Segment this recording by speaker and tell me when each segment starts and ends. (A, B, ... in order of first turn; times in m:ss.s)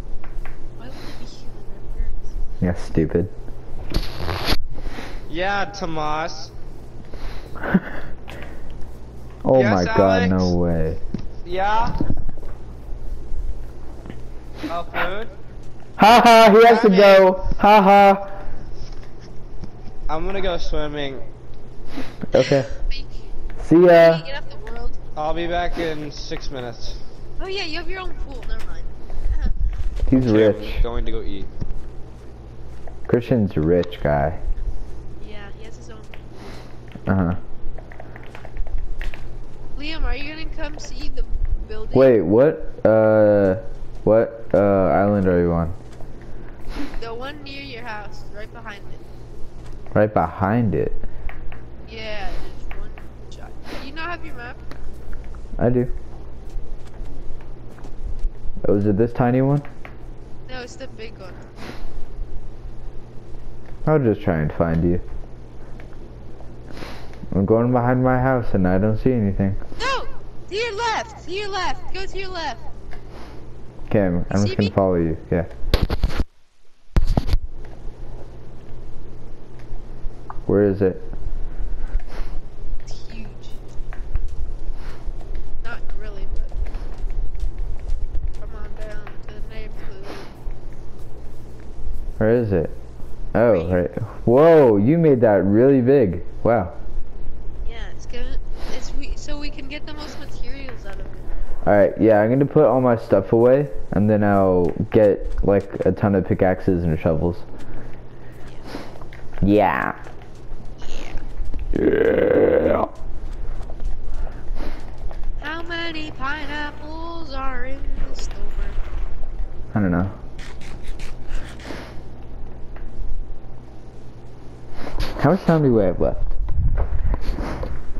0:00.8-0:02.3 A
0:02.6-0:03.3 B
0:05.3-0:06.5 C
0:09.4-0:11.0 B
0:09.5-0:10.5 C
0:11.4-0:12.0 C
0:14.7-0:15.3 C
0:16.0-0:18.3 B
0:16.6-0:17.4 C
0:20.1-0:21.2 C
0:22.3-0:22.7 B
0:22.3-0:23.2 A
0:23.6-0:24.2 B
0:23.8-0:25.0 A
0:25.2-0:27.0 C
0:27.4-0:29.5 A
0:30.1-0:30.8 B
0:30.2-0:31.5 C
0:33.1-0:34.4 B
0:35.2-0:36.6 A
0:37.1-0:37.4 B
0:39.8-0:42.1 A
0:41.9-0:45.8 B
0:47.0-0:49.1 A
0:49.9-0:51.0 B
0:51.9-0:54.6 A
0:55.6-0:55.9 B
0:58.6-0:59.6 B
1:00.5-1:01.5 A
1:03.8-1:05.0 B
1:07.3-1:09.6 B
1:09.8-1:12.7 A
1:13.9-1:15.5 B
1:14.3-1:14.7 A
1:20.5-1:21.0 B
1:22.9-1:23.6 A
1:25.6-1:26.6 A
1:28.4-1:30.3 A
1:32.2-1:32.8 B
1:33.3-1:36.8 B
1:33.5-1:33.8 A
1:37.6-1:41.3 A
1:41.6-1:47.5 B
1:48.4-1:48.7 A
1:49.4-1:50.0 B
1:50.8-1:51.2 A
1:51.7-1:52.9 B
1:55.4-1:58.8 A
1:59.7-2:00.2 B
2:05.2-2:06.4 B